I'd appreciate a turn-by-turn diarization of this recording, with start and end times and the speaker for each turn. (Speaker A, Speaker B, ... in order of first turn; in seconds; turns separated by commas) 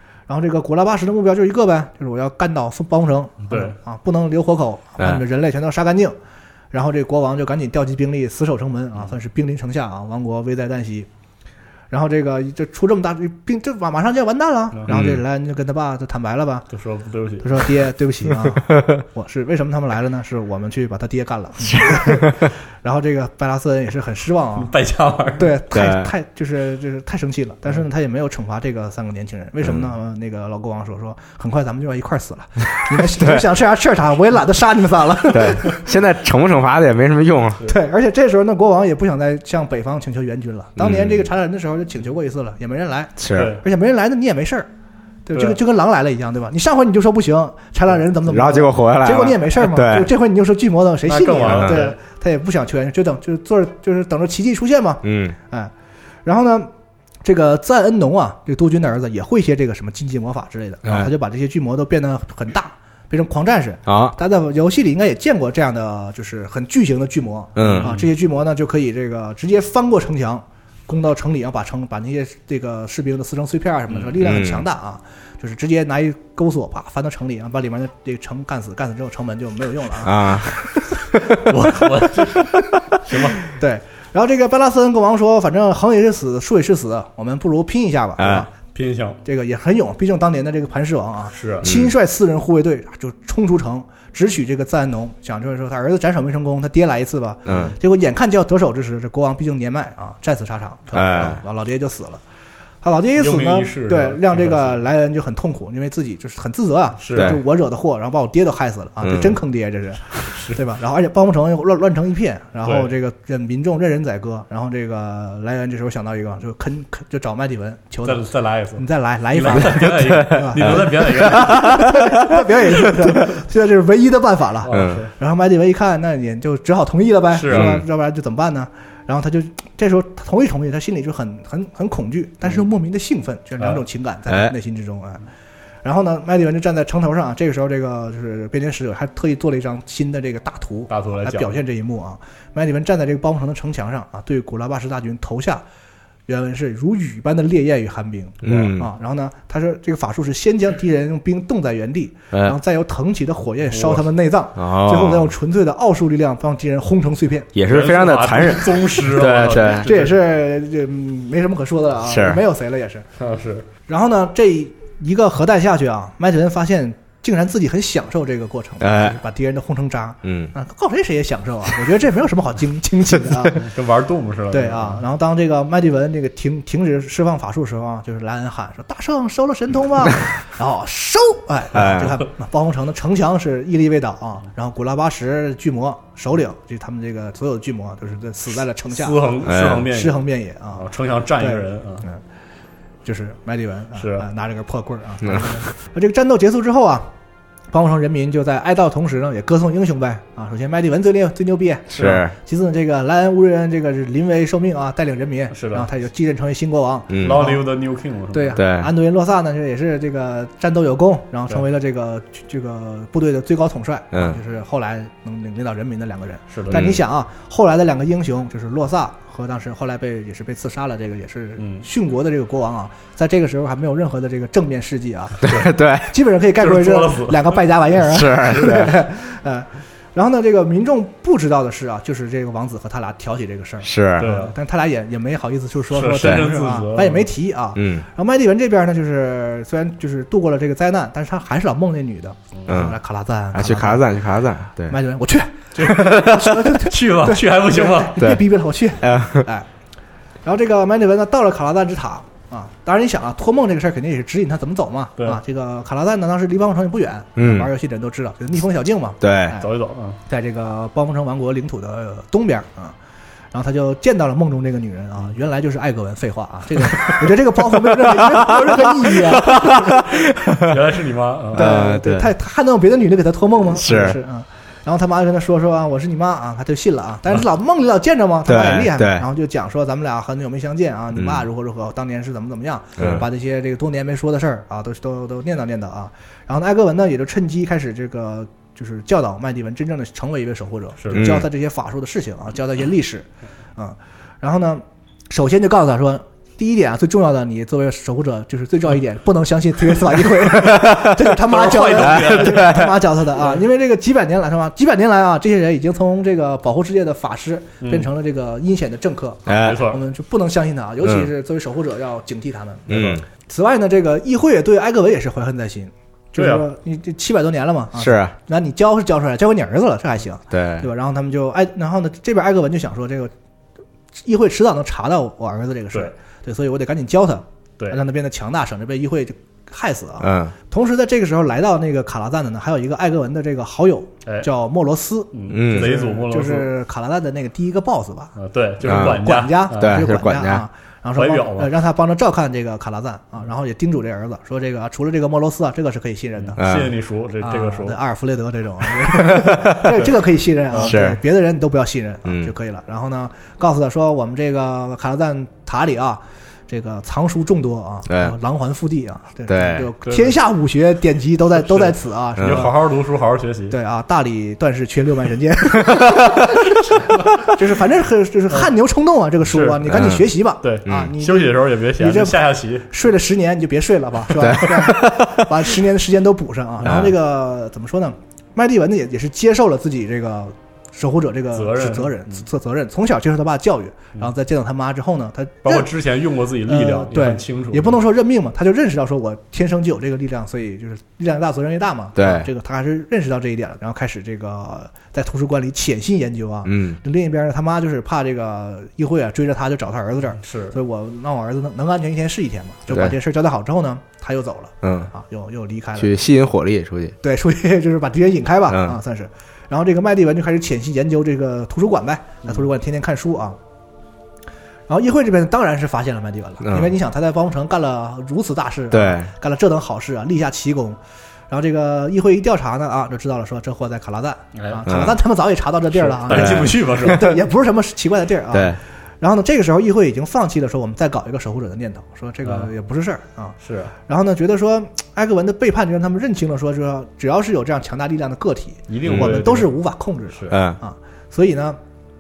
Speaker A: 0.3-6.2, Speaker B: 3.5-3.8, Speaker A: 6.7-11.1, Speaker A: 11.9-16.7, Speaker C: 14.9-15.2, Speaker B: 16.7-17.7, Speaker A: 17.4-24.7, Speaker C: 18.4-18.9, Speaker C: 21.7-22.4, Speaker B: 24.6-25.5, Speaker A: 25.4-35.8, Speaker C: 25.7-26.1, Speaker C: 32.9-33.4, Speaker C: 35.3-37.6, Speaker A: 37.7-44.7, Speaker C: 40.8-41.2, Speaker C: 43.2-43.5, Speaker B: 43.3-43.6, Speaker A: 45.3-55.7, Speaker C: 48.2-50.1, Speaker B: 51.1-52.0, Speaker C: 51.5-51.8, Speaker C: 55.0-55.4, Speaker A: 56.2-56.7, Speaker A: 57.2-80.7, Speaker C: 63.9-64.2, Speaker C: 67.6-67.9, Speaker B: 67.6-68.1, Speaker B: 73.9-74.2, Speaker C: 74.2-74.7, Speaker C: 80.0-81.4, Speaker B: 81.5-83.4, Speaker A: 83.5-88.5, Speaker C: 88.2-88.5, Speaker B: 88.7-89.2, Speaker A: 89.2-102.2, Speaker B: 91.3-91.7, Speaker C: 91.6-91.9, Speaker C: 97.5-97.7, Speaker C: 100.9-101.4, Speaker A: 102.8-118.2, Speaker B: 103.2-104.8, Speaker B: 107.0-107.4, Speaker C: 107.1-107.4, Speaker C: 109.0-109.4, Speaker B: 112.7-112.9, Speaker B: 118.0-121.9, Speaker A: 118.8-135.2, Speaker C: 120.0-123.2, Speaker B: 124.6-125.1, Speaker C: 124.7-125.0, Speaker B: 127.3-127.8, Speaker C: 127.5-127.8, Speaker C: 134.3-134.5, Speaker A: 135.8-145.6, Speaker B: 140.9-141.6, Speaker A: 146.3-157.5, Speaker C: 148.4-148.9, Speaker B: 153.7-154.0, Speaker C: 154.6-155.3, Speaker C: 157.6-159.9, Speaker B: 157.7-160.2, Speaker A: 159.7-163.1, Speaker C: 162.1-162.4, Speaker B: 163.2-163.7, Speaker A: 163.9-173.7, Speaker C: 168.8-169.2, Speaker C: 170.2-170.5, Speaker B: 173.5-175.0, Speaker A: 174.5-190.9, Speaker C: 181.7-182.2, Speaker B: 188.9-192.1, Speaker C: 189.4-189.9, Speaker A: 191.4-192.2, Speaker A: 193.1-197.1, Speaker B: 194.0-194.2, Speaker A: 197.7-207.6, Speaker C: 201.9-202.3, Speaker B: 205.5-205.9, Speaker C: 207.1-207.4, Speaker B: 207.2-208.6, Speaker A: 208.3-244.1, Speaker C: 208.6-208.9, Speaker C: 214.1-214.4, Speaker B: 216.5-216.9, Speaker C: 216.7-217.0, Speaker B: 221.6-221.9, Speaker C: 225.4-226.1, Speaker B: 226.6-227.6, Speaker C: 228.0-228.9, Speaker B: 228.3-228.8, Speaker C: 233.8-234.3, Speaker B: 234.2-234.6, Speaker B: 235.9-237.3, Speaker C: 237.8-238.1, Speaker C: 242.7-243.0, Speaker C: 243.5-245.0, Speaker A: 244.9-249.7, Speaker B: 245.8-248.3, Speaker C: 245.8-246.7, Speaker C: 249.0-249.5, Speaker A: 250.4-259.7, Speaker C: 257.4-257.7, Speaker C: 259.2-259.6, Speaker B: 259.6-260.2, Speaker A: 260.3-262.9, Speaker A: 263.5-270.0, Speaker C: 268.0-270.8, Speaker B: 270.6-271.7, Speaker C: 271.5-272.3, Speaker A: 271.5-323.3, Speaker C: 273.7-274.2, Speaker C: 278.5-279.2, Speaker C: 281.1-281.4, Speaker C: 283.0-283.2, Speaker B: 291.0-291.4, Speaker C: 291.1-291.5, Speaker C: 300.5-301.2, Speaker B: 301.2-302.8, Speaker C: 302.0-302.9, Speaker B: 307.8-308.1, Speaker C: 309.5-309.9, Speaker B: 309.5-310.0, Speaker C: 311.0-311.3, Speaker C: 312.9-313.2, Speaker B: 312.9-313.2, Speaker B: 316.4-316.7, Speaker C: 318.0-318.3, Speaker C: 320.5-320.9, Speaker A: 324.2-338.3, Speaker C: 330.2-330.5, Speaker B: 335.3-336.7, Speaker C: 335.5-335.9, Speaker B: 338.4-340.0, Speaker C: 338.9-340.6, Speaker A: 338.9-346.6, Speaker B: 341.1-341.8, Speaker B: 346.4-348.0, Speaker C: 346.6-346.9, Speaker A: 347.4-362.7, Speaker C: 349.3-349.9, Speaker C: 350.8-351.2, Speaker C: 352.2-352.5, Speaker C: 358.1-358.4, Speaker C: 359.5-359.9, Speaker B: 360.1-360.4, Speaker B: 361.6-363.8, Speaker C: 362.4-362.7, Speaker A: 363.7-385.9, Speaker C: 365.9-366.4, Speaker B: 369.4-372.9, Speaker C: 369.9-370.3, Speaker C: 374.4-375.5, Speaker B: 376.8-377.1, Speaker C: 376.9-377.1, Speaker B: 381.5-382.4, Speaker B: 385.6-388.0, Speaker A: 386.7-406.1, Speaker C: 392.2-392.5, Speaker C: 396.6-397.0, Speaker B: 400.4-400.8, Speaker C: 404.8-405.1, Speaker C: 406.0-407.1, Speaker A: 407.2-413.6, Speaker C: 408.7-409.0, Speaker A: 414.9-421.0, Speaker C: 416.6-416.9, Speaker C: 418.9-419.3, Speaker A: 421.5-433.6, Speaker B: 424.6-424.8, Speaker C: 424.9-425.1, Speaker B: 425.9-427.4, Speaker C: 426.3-426.8, Speaker C: 428.5-428.8, Speaker B: 432.4-432.7, Speaker B: 433.6-433.9, Speaker A: 434.1-441.8, Speaker B: 438.9-439.7, Speaker C: 439.0-439.4, Speaker B: 440.3-440.6, Speaker C: 440.5-440.8